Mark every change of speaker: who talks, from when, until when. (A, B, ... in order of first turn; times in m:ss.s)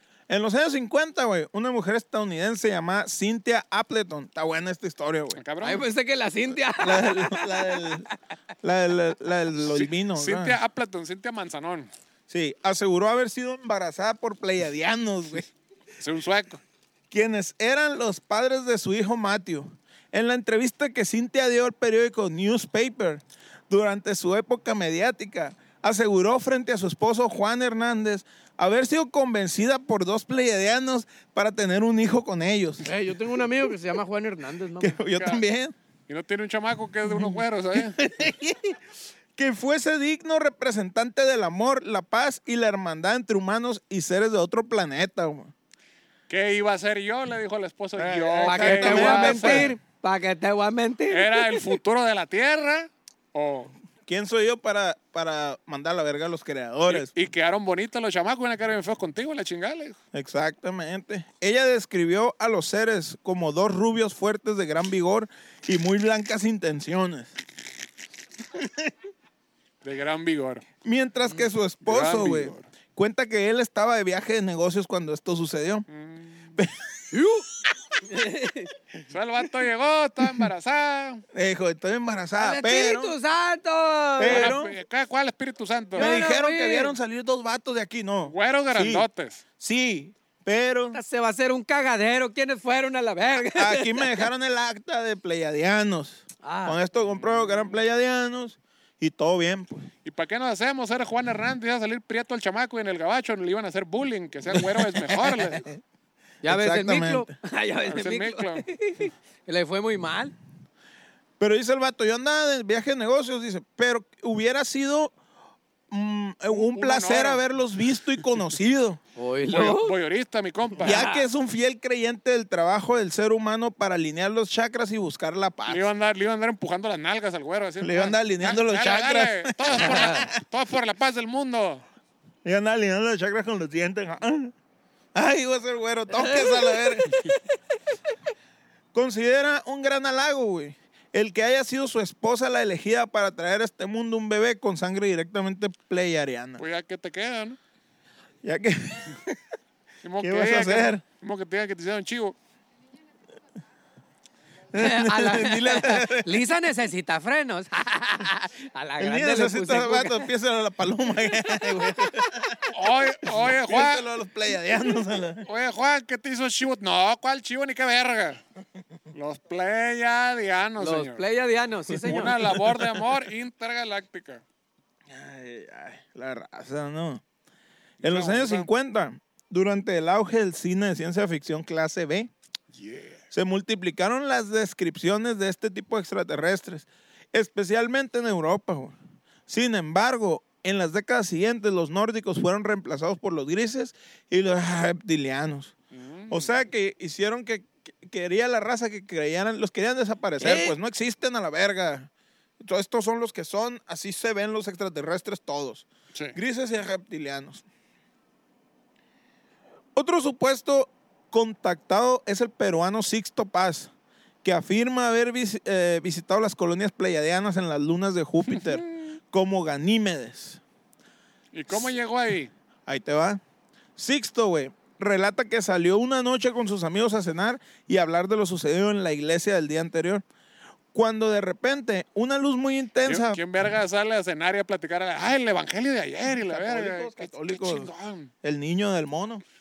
0:00.3-0:05.4 A
0:05.3-0:05.8 B
0:05.6-0:08.1 C
0:06.8-0:08.0 A
0:08.6-0:10.6 A
0:09.6-0:11.9 B
0:12.3-0:15.5 A
0:16.0-0:16.6 B
0:17.1-0:32.8 A
0:32.8-0:35.0 C
0:34.8-0:35.7 A
0:35.1-0:35.4 B
0:36.1-0:38.1 B
0:37.0-0:38.8 A
0:39.4-0:45.5 A
0:46.3-0:49.7 B
0:48.0-0:49.7 A
0:48.4-0:51.7 C
0:51.1-0:53.7 B
0:54.0-0:57.1 A
0:56.9-1:00.0 B
1:00.1-1:07.3 A
1:08.6-1:08.9 A
1:09.8-1:10.6 B
1:10.8-1:15.8 A
1:11.8-1:12.6 B
1:15.9-1:16.5 B
1:17.1-1:17.4 C
1:18.0-1:18.7 C
1:19.1-1:21.2 B
1:20.2-1:20.5 A
1:21.3-1:23.1 A
1:22.4-1:24.6 C
1:24.2-1:24.7 A
1:24.2-1:26.1 B
1:26.0-1:26.9 C
1:26.0-1:29.0 A
1:28.2-1:29.4 B
1:29.6-1:31.0 A
1:30.9-1:34.2 C
1:33.5-1:39.9 A
1:36.4-1:36.8 C
1:37.1-1:37.7 B
1:40.0-1:45.7 B
1:44.5-1:45.8 A
1:46.4-1:50.3 C
1:46.4-1:47.3 A
1:47.8-1:48.6 B
1:51.4-1:55.1 A
1:55.9-1:59.0 A
1:56.5-1:57.4 B
1:59.2-2:00.0 C
1:59.5-2:01.0 B
2:00.8-2:01.3 C
2:00.8-2:05.9 A
2:05.7-2:11.8 B
2:07.8-2:10.3 A
2:09.8-2:10.3 C
2:12.4-2:14.5 A
2:15.1-2:17.1 A
2:16.1-2:17.5 C
2:18.9-2:26.6 A
2:26.6-2:27.6 B
2:28.4-2:29.4 A
2:30.0-2:32.4 B
2:30.2-2:31.0 A
2:34.7-2:36.4 A
2:34.7-2:40.3 C
2:39.0-2:42.7 A
2:41.4-2:42.4 C
2:42.7-2:44.0 B
2:43.2-2:45.5 A
2:45.4-2:48.4 B
2:49.1-2:51.2 B
2:50.8-2:52.4 C
2:51.9-2:53.0 A
2:52.0-2:54.4 B
2:55.1-2:57.2 A
2:58.0-2:58.7 B
2:58.0-3:02.3 A
3:02.7-3:03.2 B
3:03.3-3:09.0 A
3:09.5-3:15.7 A
3:15.9-3:16.5 B
3:16.3-3:27.6 A
3:20.4-3:20.7 B
3:29.9-3:33.9 A
3:34.4-3:40.6 A
3:38.5-3:38.8 B
3:41.5-3:42.5 B
3:42.9-3:43.4 A
3:44.0-3:50.2 A
3:50.9-3:53.4 A
3:53.0-3:58.3 B
3:56.4-3:57.9 A
3:58.4-3:59.4 A